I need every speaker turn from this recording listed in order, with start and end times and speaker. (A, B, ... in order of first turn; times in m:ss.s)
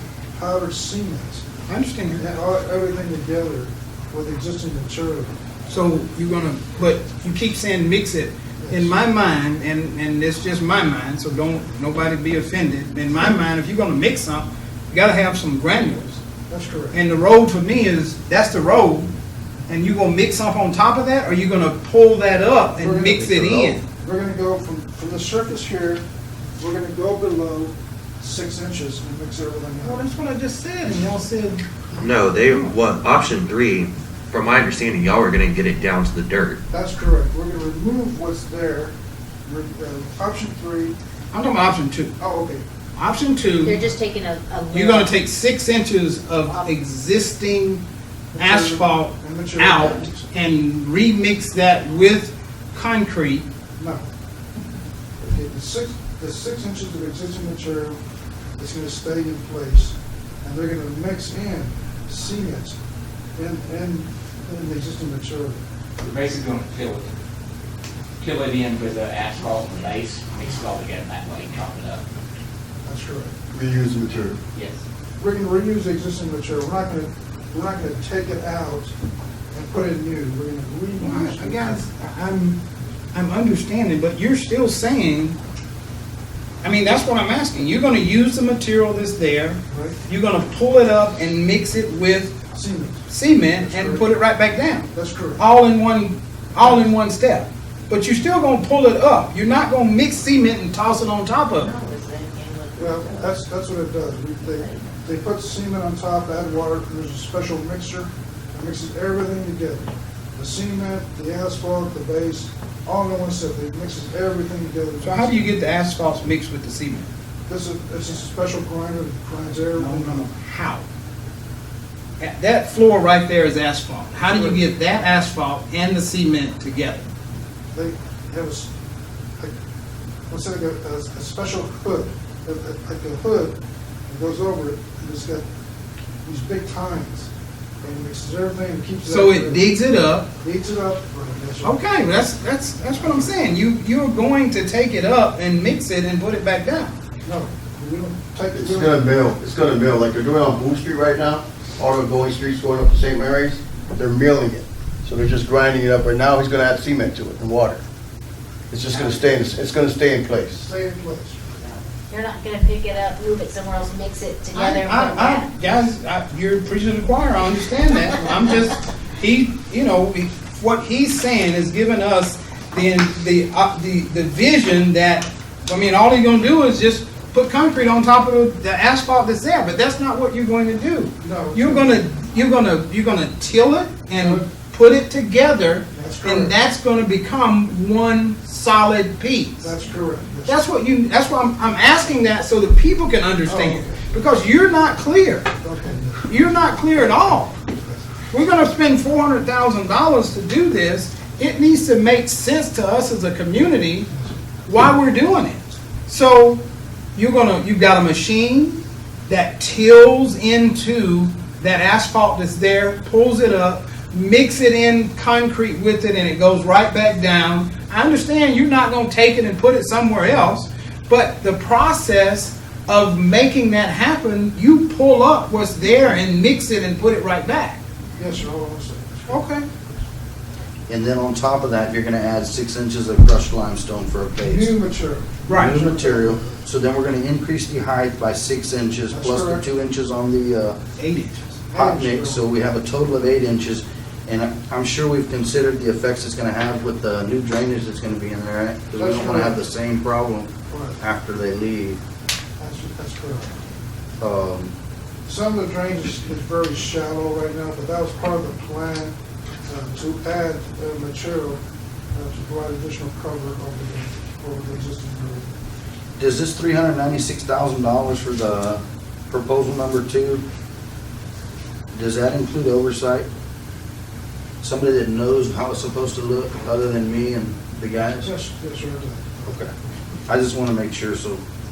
0:00.4-0:01.4 A
0:01.7-0:02.2 B
0:02.2-0:05.4 A
0:05.7-0:16.2 B
0:08.6-0:08.9 A
0:16.5-0:17.0 A
0:16.9-0:19.1 B
0:19.7-0:23.8 B
0:22.8-0:26.0 A
0:26.6-0:30.1 A
0:29.8-0:31.6 B
0:32.0-0:36.6 C
0:32.4-0:32.8 B
0:36.7-0:38.9 A
0:39.5-0:41.0 A
0:41.3-0:42.2 B
0:42.2-0:42.6 A
0:43.0-0:43.9 B
0:43.6-0:45.1 D
0:44.7-0:47.8 B
0:48.3-0:50.2 A
0:48.4-0:53.5 B
0:53.8-0:54.1 A
0:55.2-0:58.0 A
0:58.6-1:02.8 A
1:03.4-1:05.6 A
1:06.0-1:07.1 E
1:08.2-1:12.0 E
1:12.8-1:13.4 A
1:13.5-1:14.4 F
1:15.2-1:18.9 A
1:19.5-1:21.8 A
1:21.0-1:22.6 B
1:23.1-1:25.4 B
1:26.6-1:32.4 B
1:29.7-1:30.0 A
1:32.5-1:34.1 A
1:33.1-1:41.7 B
1:34.9-1:35.4 A
1:36.6-1:36.9 A
1:41.5-1:43.3 D
1:42.8-1:55.5 A
1:44.5-1:44.9 D
1:55.0-1:57.1 B
1:57.5-2:00.3 A
1:59.8-2:00.8 B
2:02.2-2:07.1 B
2:04.3-2:04.6 A
2:07.7-2:08.7 A
2:10.3-2:13.6 A
2:14.1-2:15.4 A
2:16.2-2:17.3 A
2:17.8-2:19.7 A
2:19.1-2:20.3 B
2:20.4-2:21.8 A
2:21.6-2:27.0 B
2:22.9-2:23.3 A
2:27.3-2:29.1 A
2:28.5-2:37.8 F
2:38.7-2:40.6 F
2:40.6-2:41.6 A
2:42.1-2:45.5 D
2:44.5-3:09.7 B
3:01.2-3:02.0 A
3:04.1-3:04.5 A
3:05.9-3:06.6 A
3:09.6-3:10.6 A
3:10.5-3:15.5 B
3:13.4-3:14.1 A
3:15.6-3:16.3 A
3:16.3-3:17.6 B
3:17.7-3:18.0 A
3:18.3-3:24.1 B
3:24.7-3:26.6 B
3:27.2-3:47.8 B
3:48.2-3:50.0 A
3:49.3-3:49.7 B
3:50.9-3:54.8 G
3:54.4-3:56.6 A
3:55.5-3:55.8 B
3:55.5-4:00.8 G
3:59.1-3:59.6 A
4:01.0-4:01.5 B
4:01.7-4:02.5 A
4:01.7-4:12.0 G
4:09.0-4:09.6 A
4:10.7-4:11.0 A
4:12.6-4:13.6 A
4:14.2-4:14.7 G
4:15.3-4:19.2 A
4:19.7-4:21.6 A
4:22.1-4:25.5 A
4:26.2-4:30.4 G
4:31.9-4:33.3 G
4:34.6-4:38.3 G
4:38.2-4:39.6 A
4:39.4-4:39.7 G
4:40.3-4:41.4 G